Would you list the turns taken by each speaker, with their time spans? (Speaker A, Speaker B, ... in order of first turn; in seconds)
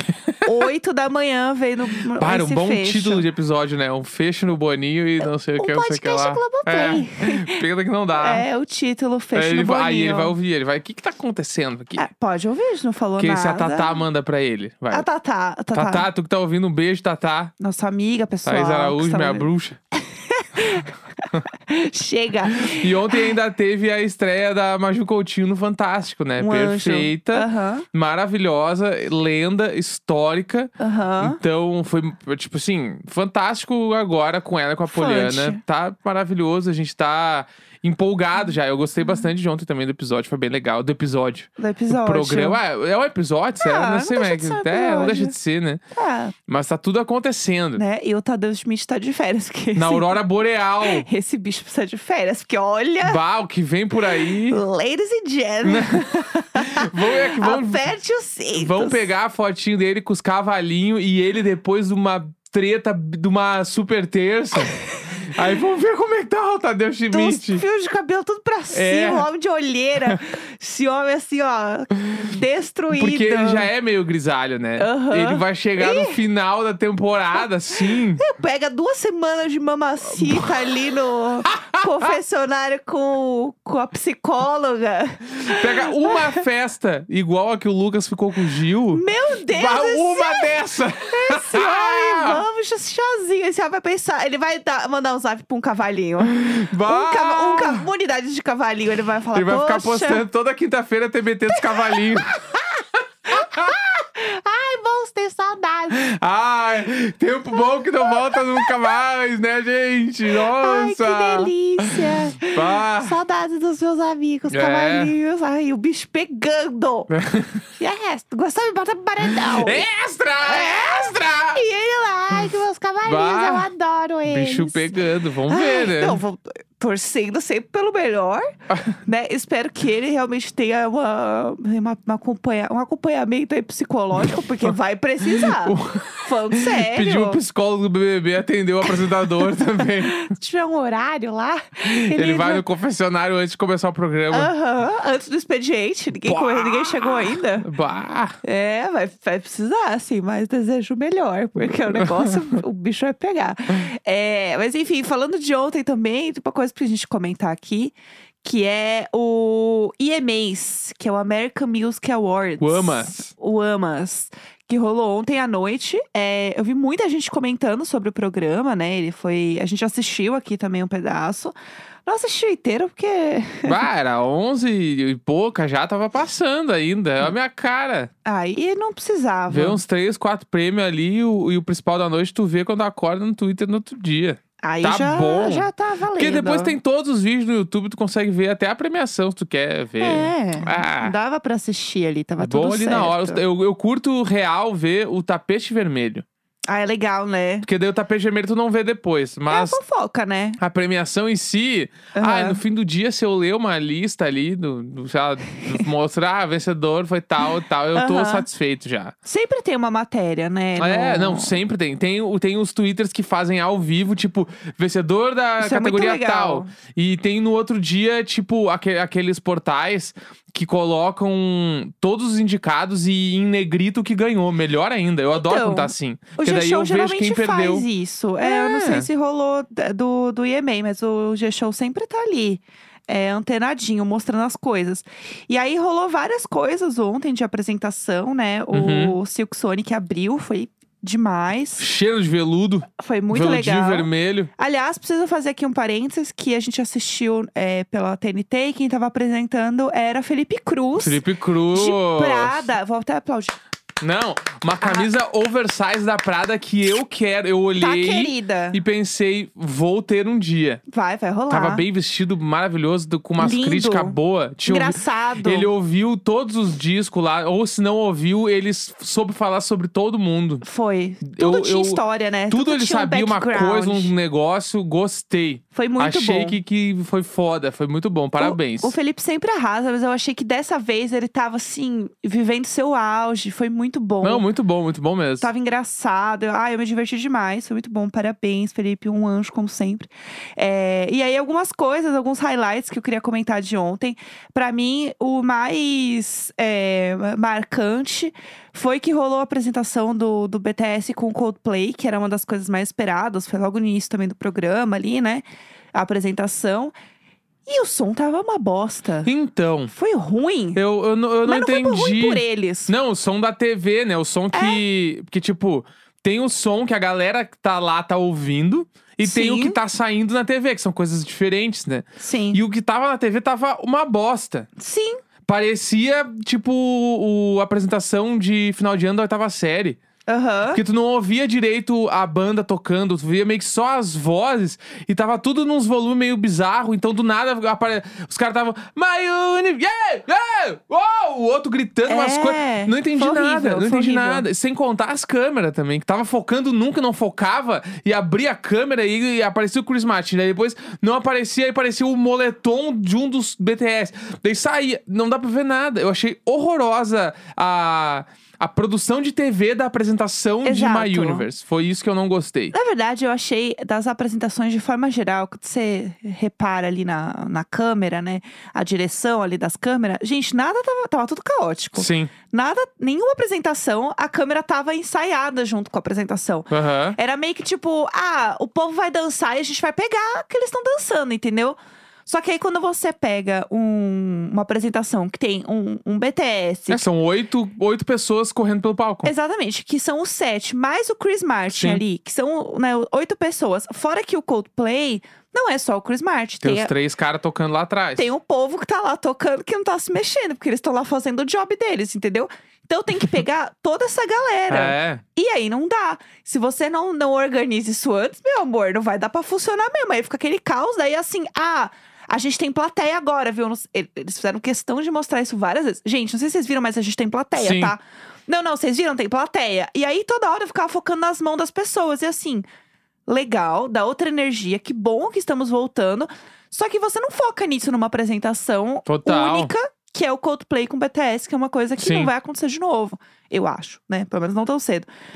Speaker A: 0.4-3.2, 5.6-7.6, 8.2-10.3, 11.9-14.0, 14.9-16.1, 17.6-23.3, 26.4-27.9, 30.8-31.4, 34.9-35.6, 41.6-42.6, 43.6-45.3, 45.9-46.3, 47.8-50.2, 50.8-53.2, 54.5-59.1, 67.1-73.7, 74.8-76.2, 77.9-86.4, 88.9-90.5, 91.1-100.2, 101.5-102.6, 103.3-106.0, 108.0-108.9, 110.3-117.1, 117.8-119.9, 120.4-124.9, 125.5-137.4, 138.8-142.6, 144.3-147.7, 148.4-171.5, 172.1-173.8, 178.2-179.8, 184.6-186.8, 190.0-193.4, 196.7-197.7, 199.5-200.6, 202.1-202.6, 207.9-208.5, 209.2-211.6, 215.6-216.7, 225.3-241.8, 243.0-253.6, 254.8-255.1, 257.8-258.8, 260.9-261.8, 263.4-265.7, 270.6-274.1, 275.7-276.6, 278.4-284.4, 285.4-306.9, 307.7-309.3, 309.9-310.8, 311.4-312.9, 314.5-314.8, 319.2-319.8, 322.2-322.6, 324.8-325.2, 330.3-330.8, 342.1-344.4, 360.6-361.4, 362.7-387.1, 389.2-396.9, 398.2-422.7, 423.3-435.1
Speaker B: 2.1-8.4, 9.3-12.1, 13.2-15.1, 15.7-17.5, 18.4-19.8, 22.6-45.8, 46.5-47.8, 49.8-51.1, 53.0-54.6, 55.6-57.8, 58.5-67.6, 68.7-69.3, 72.9-78.2, 80.1-80.5, 81.5-82.1, 85.4-92.4, 96.2-97.9, 99.3-102.3, 103.3-103.8, 105.9-113.2, 114.5-115.1, 117.1-117.6, 119.3-121.6, 123.0-123.7, 124.2-126.2, 134.2-134.7, 135.2-140.2, 141.8-144.5, 146.2-148.4, 151.9-152.5, 162.6-163.3, 173.6-178.1, 179.5-191.1, 192.4-196.2, 197.6-199.8, 200.6-209.1, 210.8-227.9, 228.4-229.1, 238.7-239.2, 241.8-244.5, 251.0-252.7, 254.0-260.8, 261.5-270.6, 271.2-278.9, 284.2-285.5, 309.2-309.9, 310.7-324.7, 325.4-330.0, 330.7-362.7, 371.9-372.3, 376.7-377.2, 386.9-389.3, 391.7-392.0, 396.6-398.3, 404.7-405.2, 417.6-417.9, 429.1-429.7, 432.0-432.3